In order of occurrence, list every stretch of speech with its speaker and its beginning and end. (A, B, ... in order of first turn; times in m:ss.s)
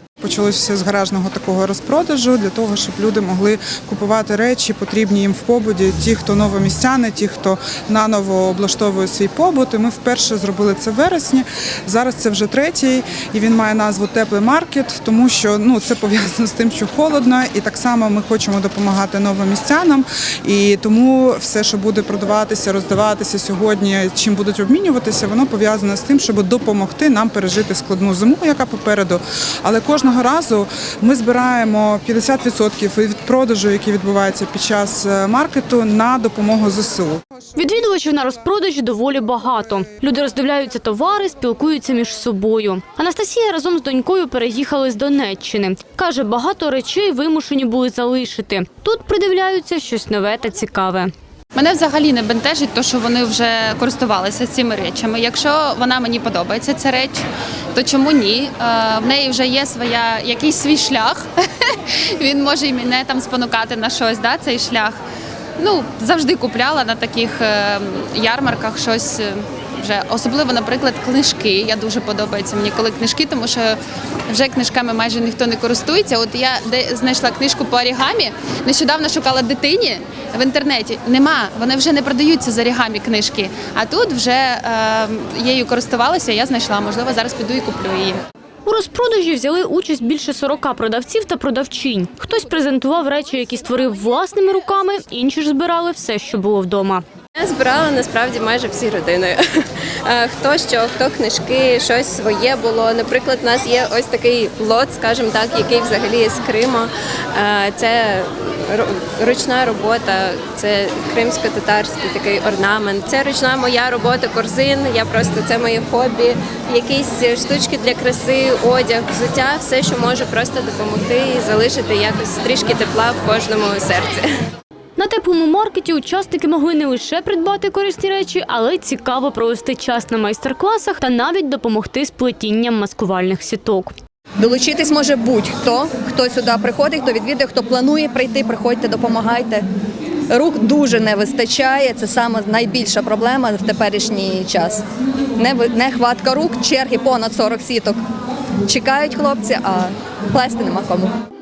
0:00.2-0:37.2 A
0:37.6-0:51.1 B
0:51.6-0:57.2 C
0:57.8-1:05.0 C
1:05.6-1:28.2 C
1:28.7-1:37.0 B
1:37.4-1:39.4 D
1:40.1-2:04.3 D
2:05.0-2:13.9 B
2:14.4-2:19.6 E
2:20.3-2:24.8 E
2:25.4-2:28.0 E
2:28.6-2:31.1 E